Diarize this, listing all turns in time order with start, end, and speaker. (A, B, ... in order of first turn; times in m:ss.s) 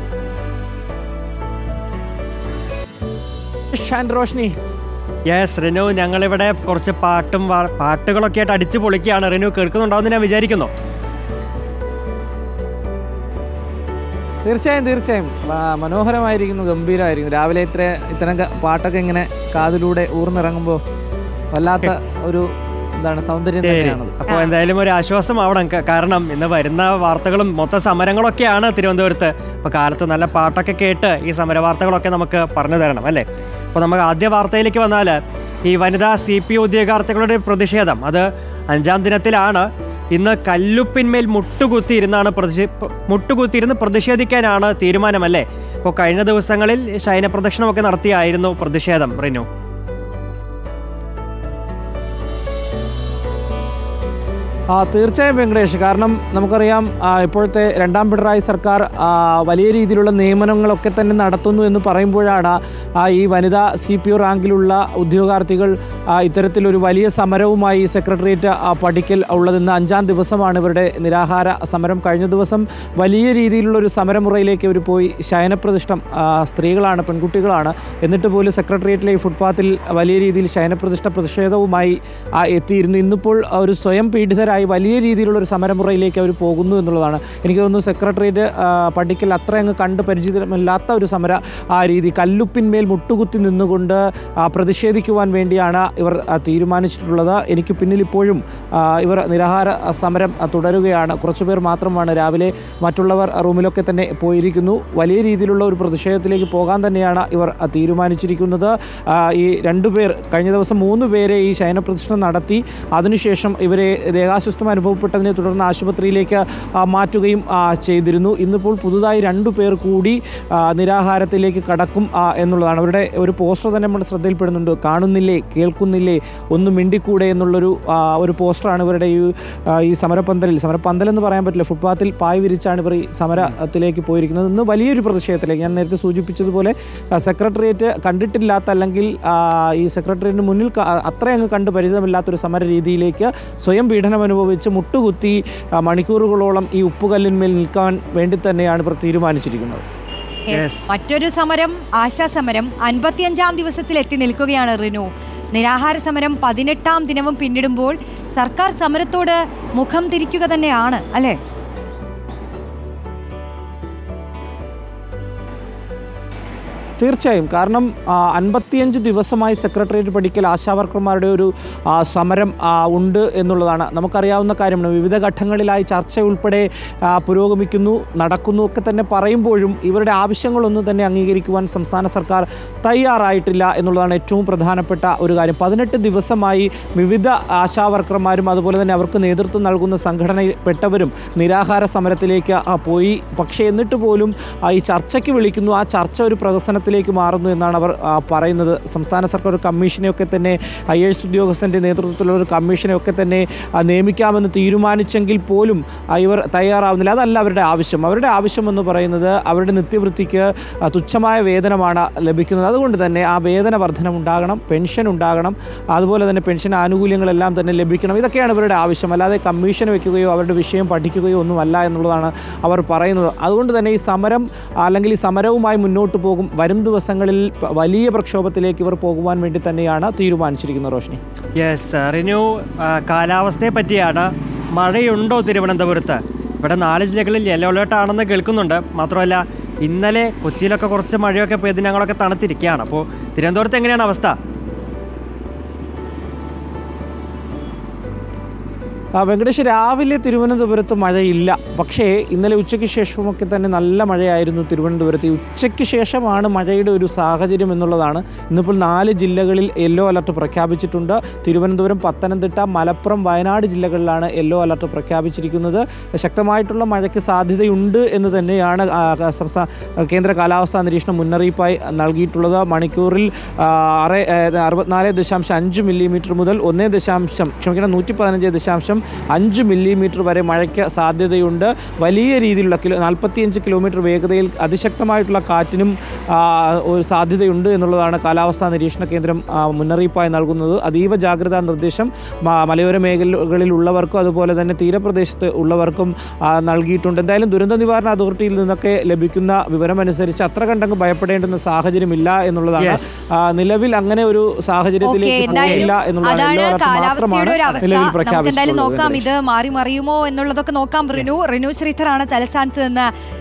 0:03.7-0:04.6 A
0:05.3-0:10.7 B
0:14.4-0:20.8 A
0:21.5-0:24.2 A
0:23.6-0:49.5 B
0:24.3-0:24.5 C
0:54.7-2:29.8 A
2:30.5-2:41.4 C
2:30.5-2:30.9 B
2:47.0-3:51.2 A
3:51.6-4:04.4 B
4:09.2-5:09.3 A
5:05.0-5:13.1 C
5:05.5-5:05.9 B